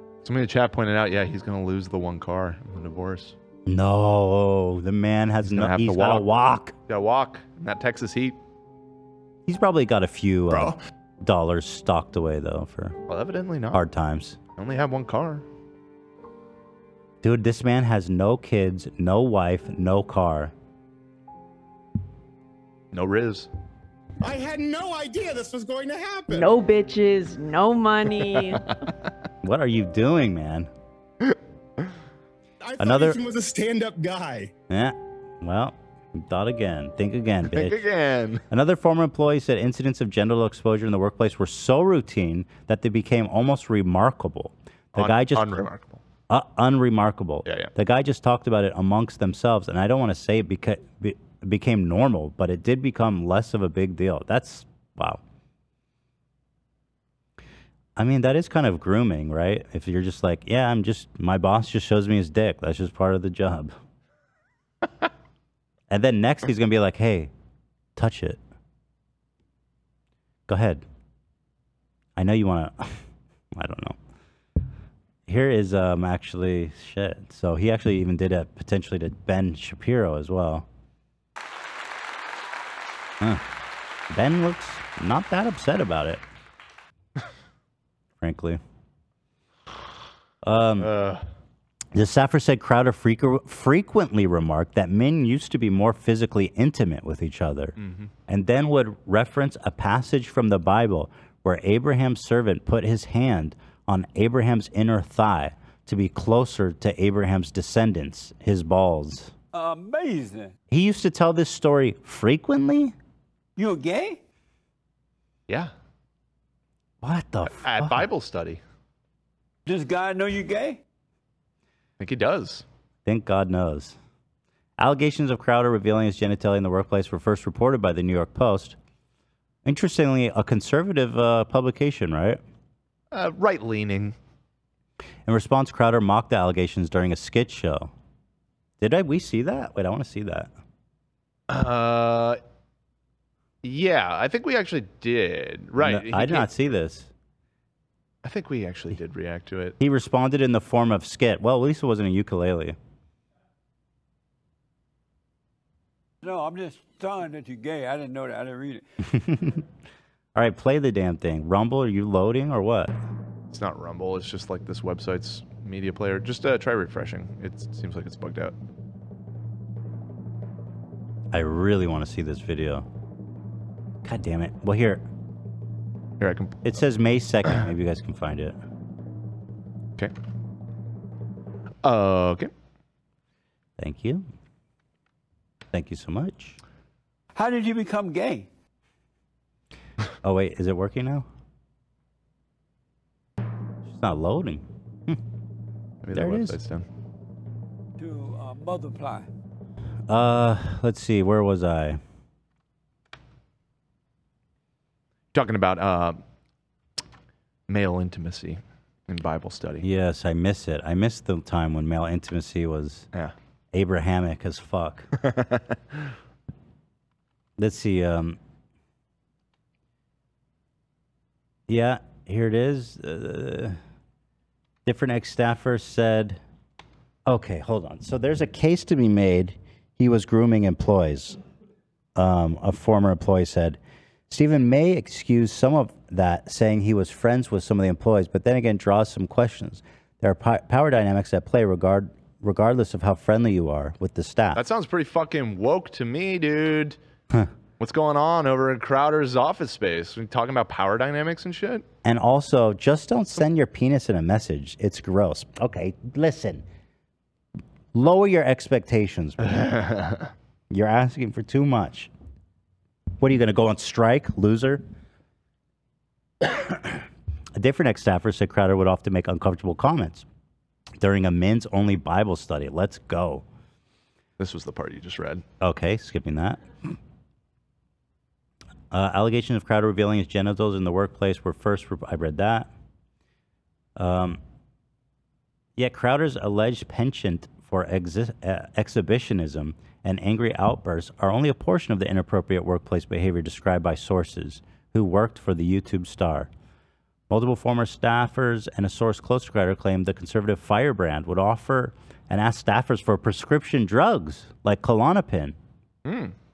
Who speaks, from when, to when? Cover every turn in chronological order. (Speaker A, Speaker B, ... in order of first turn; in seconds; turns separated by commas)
Speaker A: 0.2-3.4, Speaker B: 3.7-6.8, Speaker A: 5.5-6.3, Speaker A: 6.9-8.4, Speaker B: 9.5-13.0, Speaker A: 13.1-13.8, Speaker B: 13.7-14.4, Speaker A: 14.6-15.4, Speaker B: 17.2-20.5, Speaker A: 22.9-23.5, Speaker C: 24.2-26.2, Speaker D: 26.3-28.6, Speaker B: 29.4-30.7, Speaker C: 32.6-34.5, Speaker B: 32.8-33.2, Speaker B: 34.7-37.8, Speaker A: 37.5-38.4, Speaker B: 38.5-45.7, Speaker A: 45.0-46.0, Speaker B: 46.3-55.2, Speaker A: 47.5-47.7, Speaker B: 58.0-63.7, Speaker B: 65.9-67.3, Speaker B: 68.0-68.4, Speaker B: 70.5-70.8, Speaker B: 72.2-73.0, Speaker B: 73.5-74.0, Speaker B: 75.3-80.7, Speaker B: 84.1-86.2, Speaker B: 88.2-88.6, Speaker B: 90.4-90.9, Speaker A: 90.8-91.2, Speaker B: 91.9-97.8, Speaker A: 97.8-98.1, Speaker B: 98.3-109.3, Speaker E: 109.5-110.5, Speaker B: 110.7-113.0, Speaker E: 113.6-114.2, Speaker B: 117.0-118.1, Speaker A: 117.5-118.6, Speaker E: 119.7-120.8, Speaker A: 122.0-122.7, Speaker B: 123.0-124.0, Speaker B: 124.8-128.8, Speaker B: 129.7-132.4, Speaker A: 133.1-134.2, Speaker B: 135.3-137.9, Speaker B: 138.8-140.5, Speaker A: 141.5-142.4, Speaker A: 143.6-146.5, Speaker B: 145.8-147.1, Speaker A: 148.2-149.8, Speaker B: 149.8-152.8, Speaker E: 156.2-158.8, Speaker B: 159.2-159.6, Speaker B: 160.3-163.0, Speaker A: 163.5-168.6, Speaker B: 171.3-172.9, Speaker B: 174.0-175.0, Speaker A: 176.2-176.7, Speaker B: 176.7-178.6, Speaker A: 181.8-182.5, Speaker B: 183.8-184.2, Speaker B: 185.7-186.6, Speaker E: 187.4-188.4, Speaker B: 190.2-191.3, Speaker B: 193.9-195.2, Speaker A: 196.0-196.8, Speaker B: 196.1-196.6, Speaker E: 198.0-199.3, Speaker B: 200.1-202.0, Speaker A: 205.3-206.2, Speaker A: 207.7-209.8, Speaker B: 209.8-213.1, Speaker B: 213.7-215.1, Speaker B: 217.6-218.4, Speaker B: 221.7-223.8, Speaker B: 224.8-226.4, Speaker B: 227.3-231.4, Speaker B: 232.2-244.6, Speaker A: 244.6-247.0, Speaker A: 247.8-251.8, Speaker B: 252.0-256.6, Speaker B: 257.9-259.7, Speaker A: 259.6-260.2, Speaker B: 260.7-262.1, Speaker B: 263.2-264.8, Speaker B: 266.4-267.0, Speaker B: 267.6-270.3, Speaker B: 271.0-273.4, Speaker A: 274.4-275.4, Speaker B: 275.6-276.6, Speaker B: 278.9-282.7, Speaker B: 284.0-284.4, Speaker B: 285.8-296.5, Speaker B: 297.3-305.6, Speaker A: 306.1-306.3